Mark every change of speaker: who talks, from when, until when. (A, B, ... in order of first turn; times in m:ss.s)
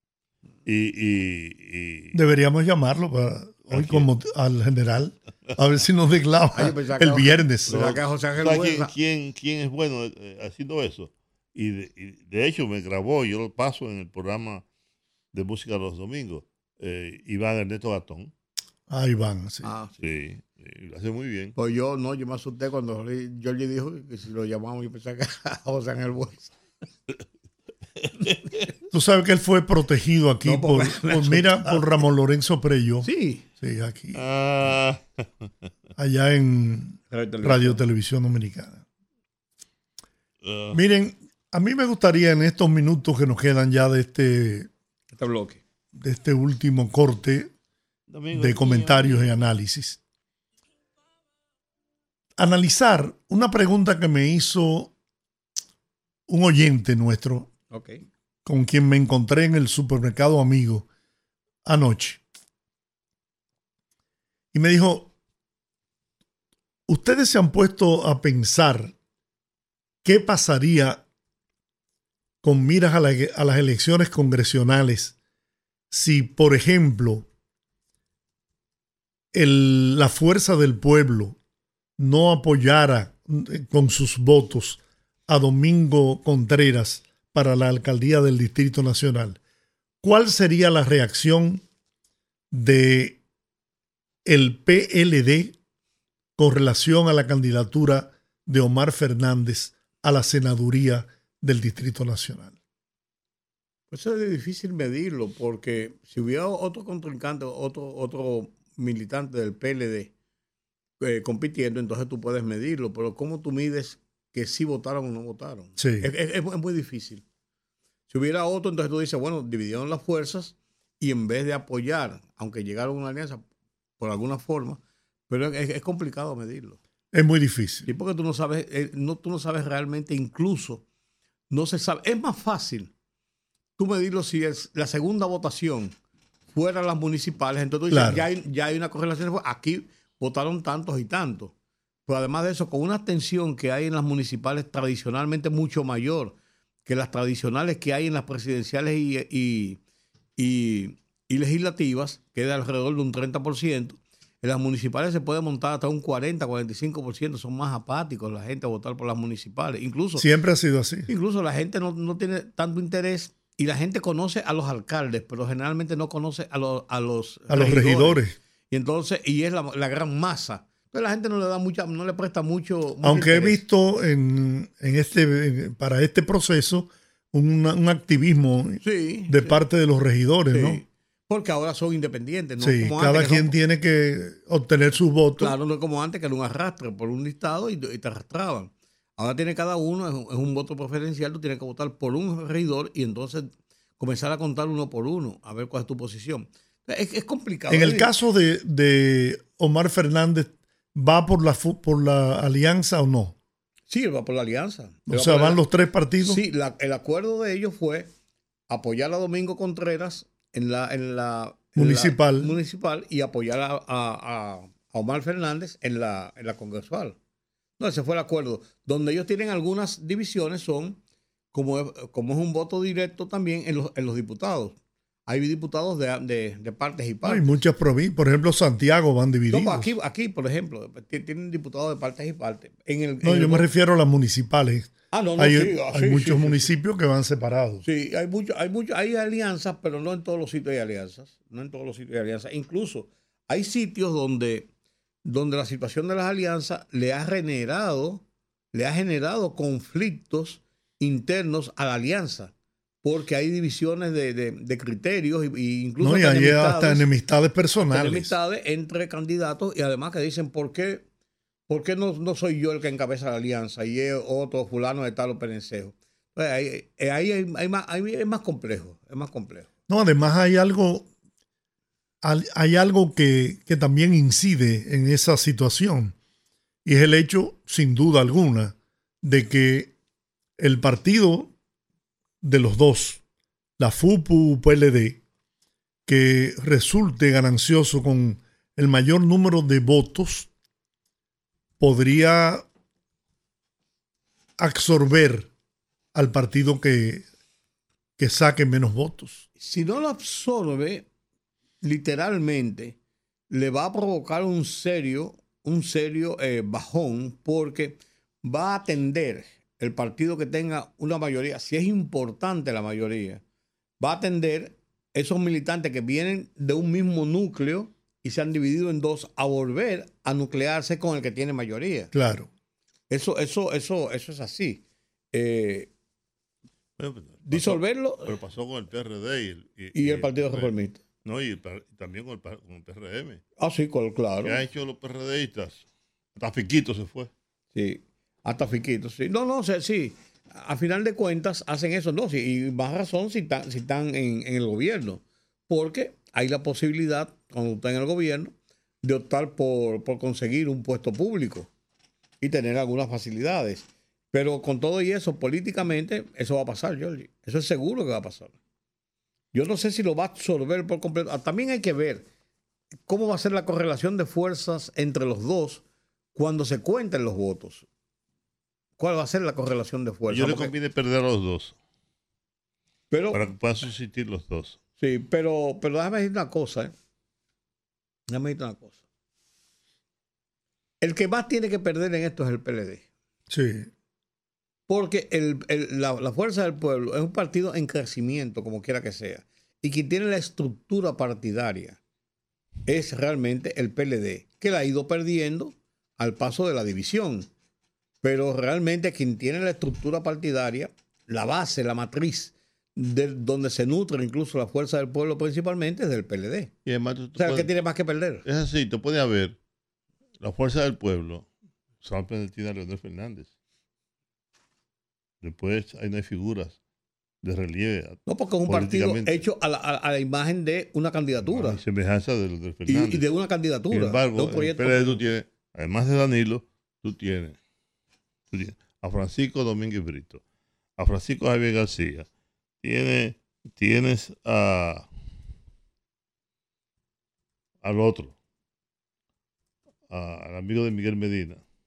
0:00.6-0:02.2 A
0:02.1-0:08.0 B
0:03.7-0:04.1 A
0:06.5-0:08.9 C
0:07.7-0:14.6 A
0:15.3-0:18.3 A
0:18.9-0:19.7 B
0:19.6-0:20.0 C
0:20.0-0:21.6 A
0:21.6-0:26.6 C
0:28.9-0:34.2 B
0:30.4-0:32.0 C
0:33.0-0:33.5 C
0:34.1-0:35.3 A
0:36.0-0:38.8 B
0:37.1-0:37.8 C
0:40.4-0:40.8 A
0:40.7-0:44.7 B
0:45.1-0:45.6 C
0:46.0-0:47.5 B
0:48.1-0:49.4 A
0:48.3-0:50.0 B
0:52.4-0:54.9 B
0:56.3-0:57.5 B
0:57.7-0:58.0 C
0:58.4-1:00.9 B
1:01.6-1:02.2 B
1:04.5-1:05.1 B
1:06.9-1:08.9 B
1:10.0-1:11.0 B
1:12.4-1:15.2 B
1:15.9-1:17.3 B
1:19.3-1:21.4 B
1:22.0-1:29.4 B
1:30.0-1:31.6 B
1:32.5-1:33.2 B
1:34.2-1:35.6 B
1:36.4-1:42.6 B
1:43.9-1:50.1 C
1:51.0-1:57.2 C
1:55.8-1:56.1 B
1:58.1-2:03.4 C
2:04.0-2:06.8 C
2:07.1-2:07.9 B
2:07.9-2:10.8 C
2:11.5-2:12.9 C
2:13.8-2:15.9 C
2:16.5-2:21.5 C
2:17.9-2:18.3 B
2:22.1-2:29.8 C
2:30.4-2:40.3 C
2:40.2-2:41.1 B
2:41.1-2:53.6 C
2:47.5-2:48.4 B
2:53.0-3:00.8 B
2:58.8-2:59.6 C
3:00.5-3:03.5 C
3:02.6-3:05.6 B
3:05.4-3:18.1 C
3:17.7-3:23.4 B
3:23.9-3:25.6 C
3:25.1-3:26.4 B
3:26.2-3:28.1 C
3:28.7-3:37.2 C
3:31.8-3:32.6 B
3:37.8-3:41.0 C
3:41.5-3:44.8 C
3:45.3-3:47.6 C
3:47.2-3:49.9 B
3:49.5-3:53.7 C
3:53.2-3:57.9 B
3:55.1-3:56.7 C
3:57.8-4:04.7 C
4:05.3-4:08.2 C
4:08.7-4:17.1 C
4:16.0-4:18.4 B
4:17.9-4:21.0 C
4:21.7-4:29.7 C
4:29.9-4:31.1 B
4:32.2-4:36.2 B
4:36.8-4:39.9 B
4:40.6-4:41.5 B
4:42.4-4:43.2 B
4:43.8-4:45.2 B
4:46.1-4:50.5 B
4:51.8-4:52.6 B
4:54.6-4:55.5 B
4:56.1-4:57.3 B
4:58.2-4:59.5 B
4:59.6-5:01.1 C
5:01.8-5:03.0 C
5:03.5-5:13.4 C
5:14.0-5:22.1 C
5:22.1-5:22.5 B
5:23.1-5:25.9 C
5:27.0-5:30.7 A
5:27.4-5:28.3 C
5:30.0-5:31.0 C
5:31.2-5:33.4 A
5:33.6-5:34.6 C
5:34.4-5:37.3 A
5:37.7-5:51.7 C
5:52.4-5:58.6 C
5:59.5-6:02.3 C
6:03.1-6:05.8 C
6:06.4-6:07.9 C
6:09.0-6:10.7 C
6:10.3-6:11.8 A
6:13.1-6:13.4 C
6:13.3-6:14.8 A
6:15.0-6:16.9 C
6:18.3-6:19.0 C
6:21.0-6:23.0 C
6:23.5-6:23.9 B
6:24.9-6:32.0 C
6:32.9-6:37.5 C
6:38.2-6:46.7 C
6:46.8-6:47.7 A
6:47.4-6:48.4 C
6:48.4-6:49.6 A
6:50.4-6:51.5 A
6:52.0-6:53.5 A
6:55.4-6:56.8 A
6:57.4-6:59.4 A
6:58.3-7:01.8 C
7:01.5-7:03.2 A
7:02.9-7:05.2 C
7:03.9-7:07.6 A
7:08.5-7:10.4 A
7:11.0-7:12.3 A
7:12.8-7:15.1 A
7:17.8-7:18.4 A
7:20.1-7:21.6 A